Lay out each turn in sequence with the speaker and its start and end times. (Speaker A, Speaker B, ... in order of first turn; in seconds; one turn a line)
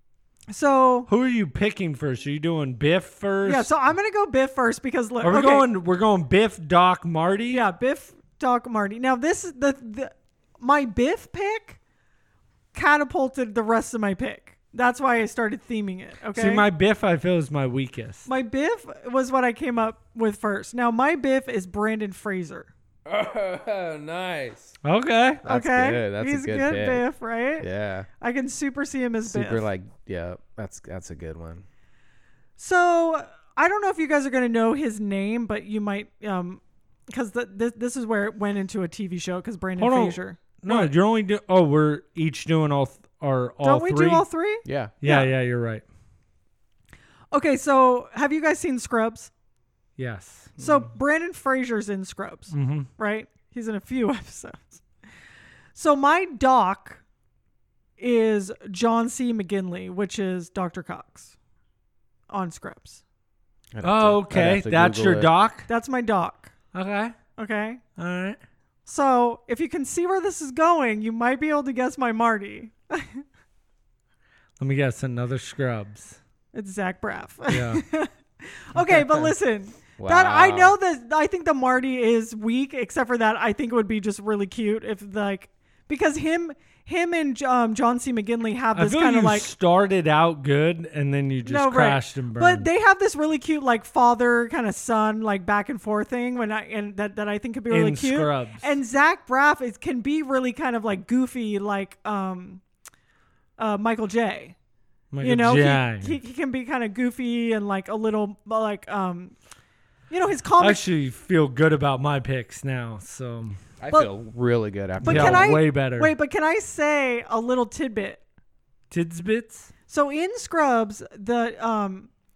Speaker A: 0.5-1.1
Speaker B: 1.1-3.7
Speaker A: 3.4-5.7
Speaker B: 5.2-7.6
Speaker A: 7.5-11.8
Speaker A: 12.7-16.6
Speaker B: 16.3-18.3
Speaker A: 18.3-22.7
Speaker C: 23.1-24.7
Speaker B: 24.8-25.4
Speaker C: 25.4-27.0
Speaker A: 25.4-27.7
Speaker C: 27.6-28.1
Speaker A: 28.2-29.6
Speaker C: 29.2-31.6
Speaker A: 32.6-40.9
Speaker B: 39.8-44.2
Speaker A: 43.6-45.3
Speaker C: 44.6-44.9
Speaker B: 45.0-45.8
Speaker A: 47.3-49.3
Speaker B: 50.0-50.5
Speaker C: 50.6-50.9
Speaker A: 50.6-54.8
Speaker B: 52.5-52.9
Speaker A: 55.7-57.0
Speaker A: 58.0-61.3
Speaker A: 62.3-63.0
Speaker C: 63.7-65.3
Speaker B: 63.8-65.7
Speaker A: 65.7-66.5
Speaker B: 66.7-67.2
Speaker A: 67.4-67.8
Speaker B: 68.0-68.4
Speaker A: 68.8-73.2
Speaker B: 74.6-76.2
Speaker A: 76.5-89.5
Speaker B: 77.5-77.8
Speaker B: 78.8-79.3
Speaker C: 80.0-80.8
Speaker B: 88.7-92.7
Speaker A: 91.4-102.6
Speaker B: 97.7-98.7
Speaker A: 103.6-104.5
Speaker B: 105.1-106.2
Speaker A: 105.2-109.3
Speaker A: 110.1-110.8
Speaker B: 110.6-113.6
Speaker C: 113.8-115.6
Speaker A: 115.0-118.2
Speaker B: 115.0-116.1
Speaker B: 118.9-119.7
Speaker A: 119.9-122.1